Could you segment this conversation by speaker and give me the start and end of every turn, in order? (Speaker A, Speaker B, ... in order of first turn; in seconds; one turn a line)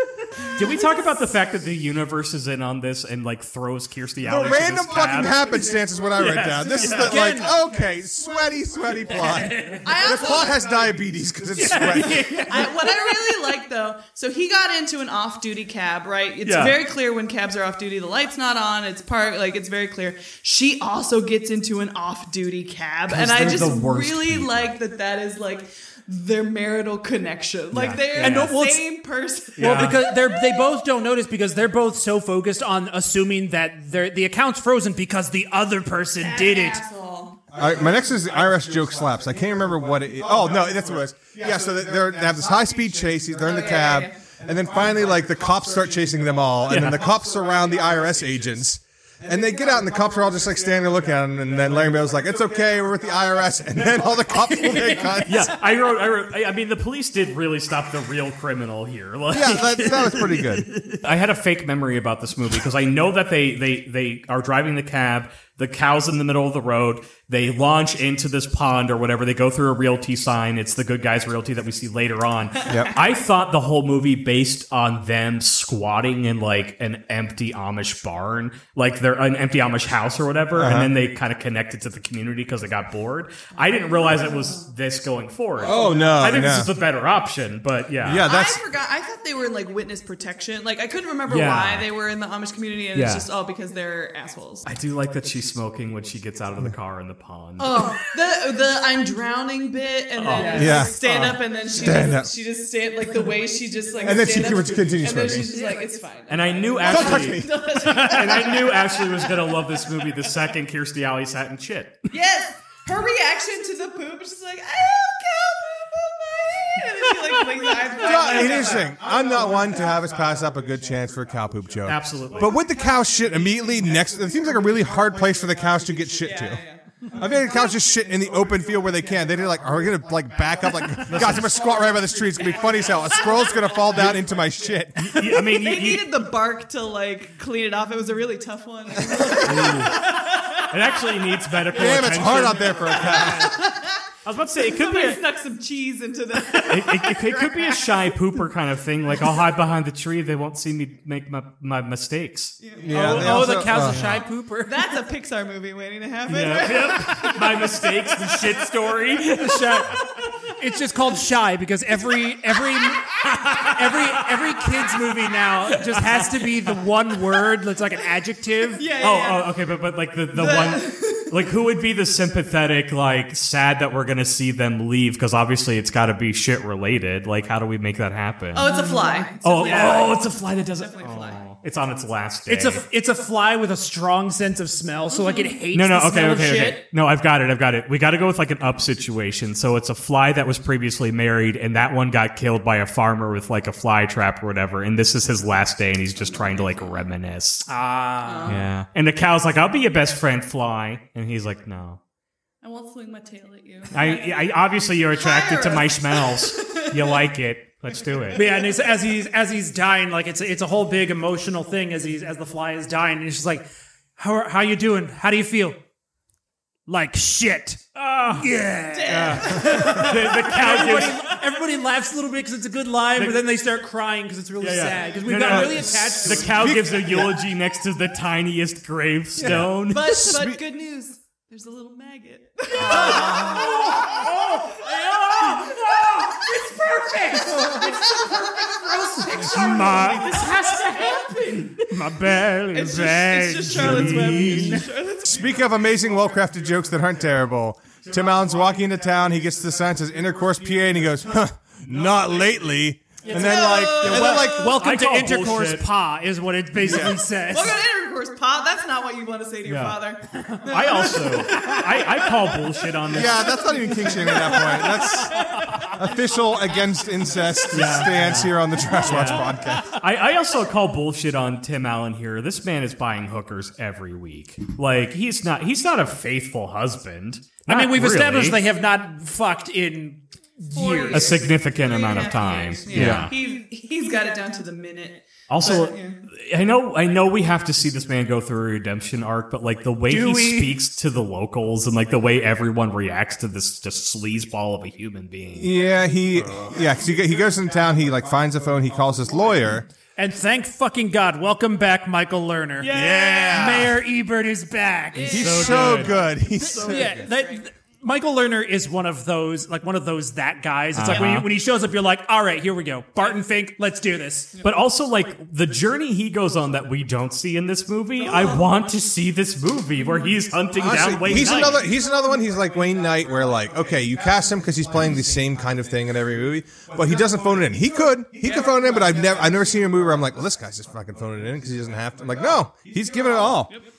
Speaker A: 0.5-5.6
Speaker B: 4.2-12.3
Speaker A: 6.2-7.1
Speaker C: 6.8-7.5
Speaker C: 9.5-9.8
Speaker D: 9.8-10.8
Speaker C: 11.6-13.0
Speaker A: 11.6-12.5
Speaker D: 12.3-30.7
Speaker A: 16.4-16.8
Speaker A: 23.1-24.7
Speaker A: 27.7-28.6
Speaker C: 28.2-28.9
Speaker A: 29.6-30.0
Speaker C: 29.6-36.8
Speaker D: 36.2-37.6
Speaker B: 37.5-55.5
Speaker D: 43.4-44.2
Speaker A: 46.7-47.1
Speaker A: 54.8-88.3
Speaker B: 59.3-60.7
Speaker B: 72.7-72.9
Speaker D: 72.7-72.9
Speaker B: 80.6-80.9
Speaker D: 83.8-84.6
Speaker B: 85.6-86.7
Speaker B: 88.0-88.6
Speaker D: 88.2-94.7
Speaker A: 91.3-91.9
Speaker A: 92.9-93.3
Speaker A: 94.7-98.0
Speaker D: 97.6-109.4
Speaker A: 100.2-101.4
Speaker B: 100.5-101.0
Speaker B: 101.8-102.3
Speaker B: 104.0-105.5
Speaker A: 106.3-112.1
Speaker B: 106.8-107.8
Speaker D: 112.1-119.0
Speaker B: 118.0-126.6
Speaker A: 121.9-122.5
Speaker D: 126.2-126.9
Speaker B: 127.1-135.3
Speaker A: 131.1-131.6
Speaker D: 133.6-134.0
Speaker A: 135.0-136.3
Speaker D: 135.3-140.6
Speaker A: 139.4-143.6
Speaker B: 141.8-143.6
Speaker D: 143.1-144.0
Speaker A: 144.2-145.2
Speaker D: 144.6-148.1
Speaker A: 146.6-154.2
Speaker B: 152.8-154.1
Speaker C: 152.9-155.0
Speaker D: 154.0-158.4
Speaker A: 156.3-160.0
Speaker C: 159.4-168.8
Speaker A: 163.2-164.5
Speaker A: 165.7-166.7
Speaker D: 168.7-169.6
Speaker A: 169.0-178.7
Speaker D: 170.3-171.4
Speaker D: 178.5-181.4
Speaker C: 178.6-179.7
Speaker A: 179.4-182.8
Speaker C: 182.5-186.8
Speaker D: 185.2-185.5
Speaker A: 185.7-197.7
Speaker C: 197.7-198.6
Speaker D: 198.2-198.6
Speaker A: 198.4-202.0
Speaker D: 202.6-204.6
Speaker A: 203.9-208.5
Speaker D: 205.1-207.2
Speaker D: 208.3-208.7
Speaker C: 208.3-213.7
Speaker C: 214.2-215.8
Speaker C: 216.9-226.6
Speaker A: 218.0-218.5
Speaker D: 218.9-220.3
Speaker A: 219.1-221.2
Speaker A: 223.2-223.4
Speaker A: 224.6-230.4
Speaker B: 225.5-227.4
Speaker B: 229.4-230.6
Speaker D: 229.8-234.2
Speaker C: 232.9-234.8
Speaker B: 232.9-233.7
Speaker A: 233.1-233.7
Speaker A: 234.4-235.7
Speaker C: 235.4-244.9
Speaker D: 237.6-241.7
Speaker D: 242.7-245.4
Speaker A: 243.7-244.5
Speaker B: 245.2-254.7
Speaker C: 253.2-257.8
Speaker D: 253.3-254.7
Speaker A: 254.2-255.9
Speaker B: 256.8-257.2
Speaker D: 257.4-262.2
Speaker A: 259.6-263.7
Speaker B: 263.1-269.9
Speaker D: 263.7-264.9
Speaker A: 267.7-278.6
Speaker C: 277.7-281.4
Speaker D: 280.7-286.2
Speaker A: 281.1-283.4
Speaker B: 282.9-283.3
Speaker C: 282.9-283.2
Speaker A: 285.5-295.7
Speaker C: 290.1-290.8
Speaker B: 295.6-299.9
Speaker C: 300.2-305.7
Speaker D: 302.8-303.5
Speaker B: 302.8-304.0
Speaker D: 305.1-307.6
Speaker A: 305.3-306.2
Speaker B: 305.3-307.2
Speaker C: 306.6-314.6
Speaker A: 310.9-311.5
Speaker A: 314.6-321.9
Speaker B: 320.8-333.8